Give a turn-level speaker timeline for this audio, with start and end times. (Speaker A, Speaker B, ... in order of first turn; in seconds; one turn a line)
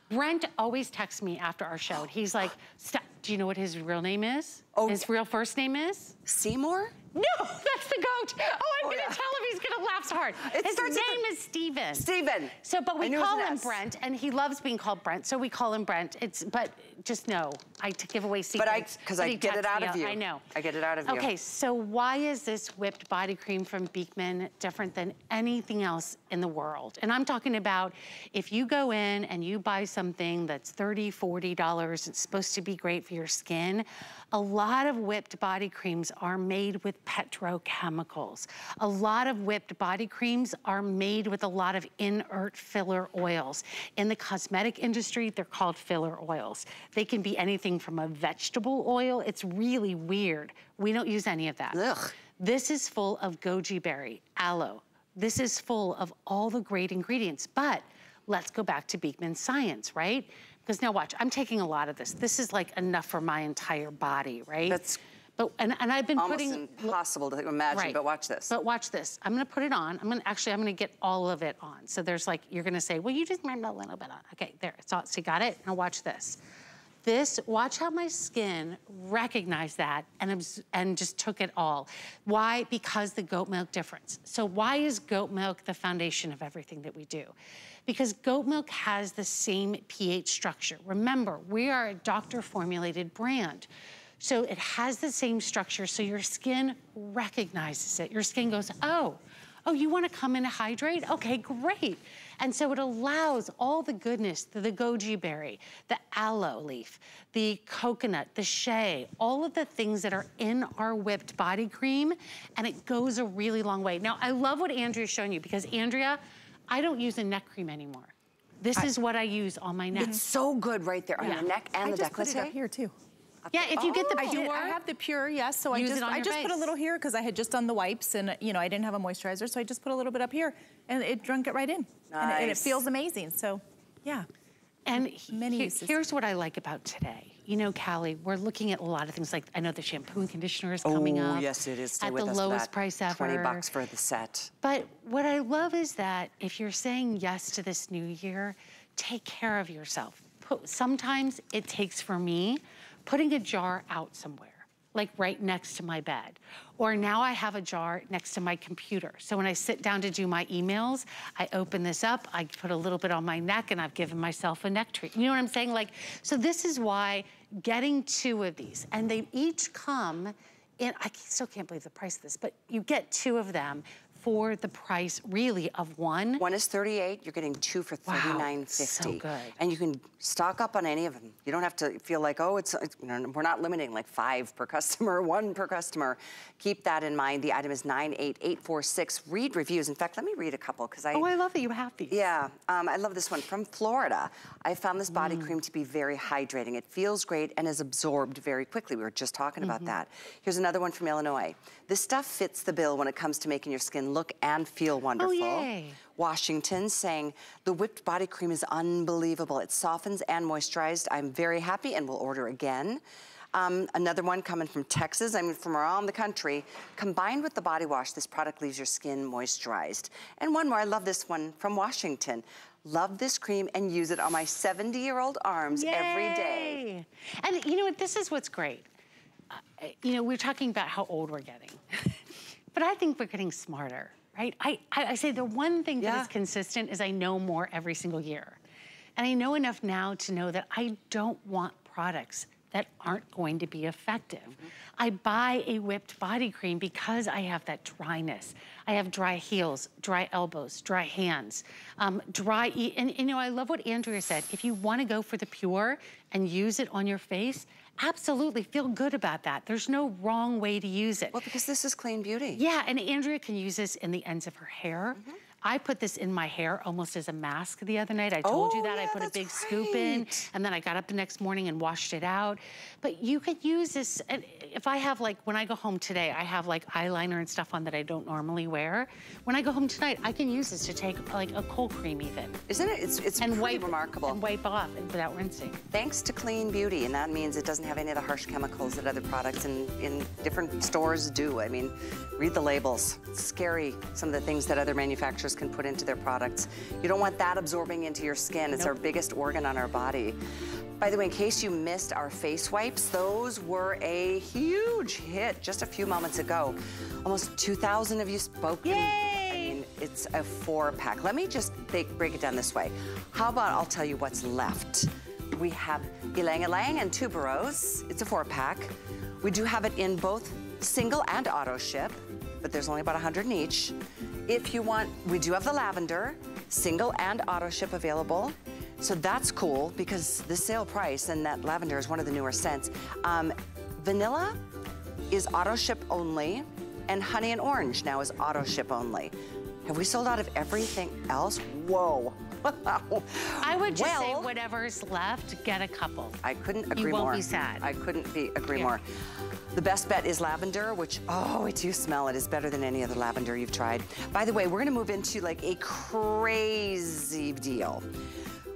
Speaker A: 0.1-6.2
Speaker B: 4.8-5.0
Speaker B: 6.3-7.0
Speaker A: 7.1-12.1
Speaker B: 8.8-9.2
Speaker B: 10.4-11.2
Speaker B: 11.9-13.8
Speaker A: 12.6-20.5
Speaker B: 18.6-21.3
Speaker A: 21.1-64.8
Speaker B: 51.7-52.1
Speaker B: 64.7-65.0
Speaker A: 65.4-67.0
Speaker B: 66.2-68.5
Speaker A: 67.7-76.4
Speaker A: 77.0-87.3
Speaker A: 87.9-93.7
Speaker A: 94.2-120.2
Speaker B: 119.9-122.5
Speaker A: 121.2-121.5
Speaker C: 121.8-123.0
Speaker B: 123.5-124.4
Speaker A: 123.5-124.8
Speaker C: 124.1-134.3
Speaker A: 125.7-126.7
Speaker B: 132.1-132.8
Speaker A: 134.9-143.7
Speaker C: 135.0-136.0
Speaker B: 140.8-144.5
Speaker A: 144.6-176.4
Speaker B: 176.4-191.3
Speaker A: 178.1-179.6
Speaker A: 191.1-192.2
Speaker B: 192.1-213.0
Speaker A: 195.1-195.6
Speaker A: 199.6-199.9
Speaker A: 205.2-206.0
Speaker B: 213.5-226.8
Speaker A: 225.8-228.9
Speaker A: 229.5-232.2
Speaker A: 232.7-238.6
Speaker B: 236.0-236.3
Speaker A: 239.2-261.4
Speaker B: 261.3-262.6
Speaker A: 262.6-282.6
Speaker B: 268.4-270.5
Speaker B: 282.7-284.4
Speaker A: 283.4-285.8
Speaker B: 285.9-300.4
Speaker B: 301.0-334.6
Speaker A: 308.8-309.8
Speaker B: 335.3-344.5
Speaker A: 343.6-346.4
Speaker B: 346.4-349.0
Speaker A: 347.0-347.9
Speaker B: 349.7-358.1